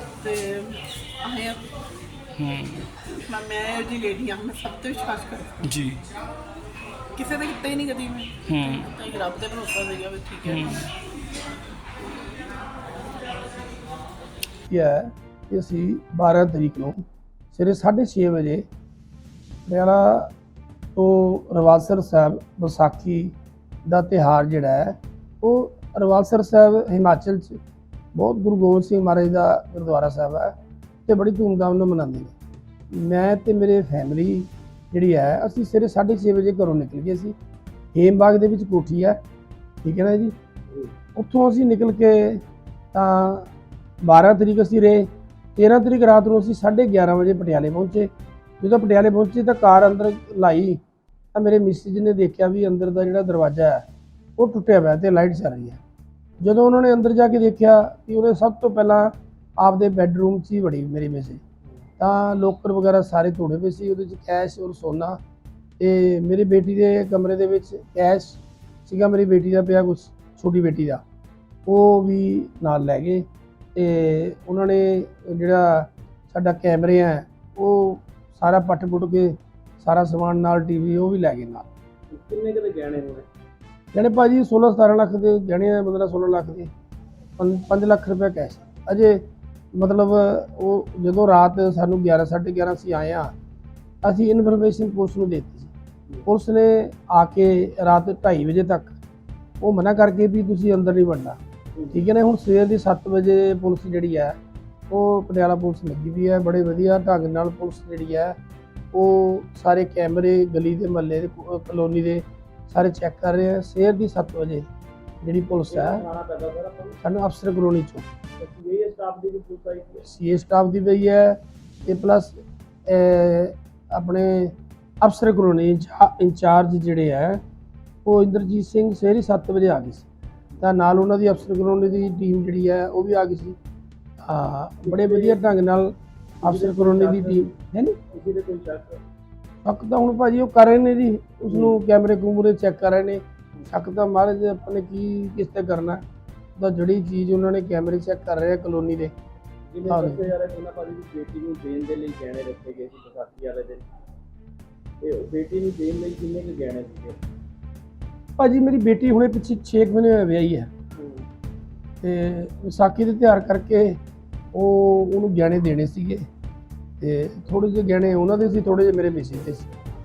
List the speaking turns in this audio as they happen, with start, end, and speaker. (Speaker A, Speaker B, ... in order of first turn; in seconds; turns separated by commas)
Speaker A: 0.2-1.6, Speaker B: 2.4-2.9, Speaker A: 3.0-5.8, Speaker B: 5.6-6.0, Speaker A: 7.1-10.9, Speaker B: 8.4-8.9, Speaker B: 10.4-10.9, Speaker C: 14.7-17.0, Speaker C: 17.5-18.7, Speaker C: 19.7-20.3, Speaker C: 20.9-23.3, Speaker C: 23.8-27.6, Speaker C: 28.1-30.6, Speaker C: 31.1-32.3, Speaker C: 32.9-37.3, Speaker C: 37.9-39.2, Speaker C: 39.8-40.3, Speaker C: 41.1-43.5, Speaker C: 44.0-50.8, Speaker C: 51.3-53.9, Speaker C: 54.4-55.8, Speaker C: 56.4-61.4, Speaker C: 62.0-65.2, Speaker C: 65.8-71.0, Speaker C: 71.7-81.7, Speaker D: 82.1-83.2, Speaker C: 83.9-86.7, Speaker C: 87.4-93.3, Speaker C: 94.0-95.7, Speaker C: 96.2-99.0, Speaker C: 99.6-104.4, Speaker C: 104.9-108.4, Speaker C: 108.9-114.7, Speaker C: 115.2-116.0, Speaker D: 115.7-117.0, Speaker C: 117.0-118.1, Speaker D: 118.3-120.1, Speaker C: 120.0-127.4, Speaker C: 128.0-130.1, Speaker C: 130.6-133.6, Speaker C: 134.2-138.0, Speaker D: 134.8-135.4, Speaker D: 136.4-139.0, Speaker C: 139.6-146.0, Speaker C: 146.6-149.1, Speaker D: 149.7-153.8, Speaker C: 149.8-150.3, Speaker D: 155.0-157.2, Speaker C: 158.4-160.7, Speaker D: 160.9-161.2, Speaker C: 162.0-164.0, Speaker C: 164.5-166.3, Speaker C: 167.0-169.7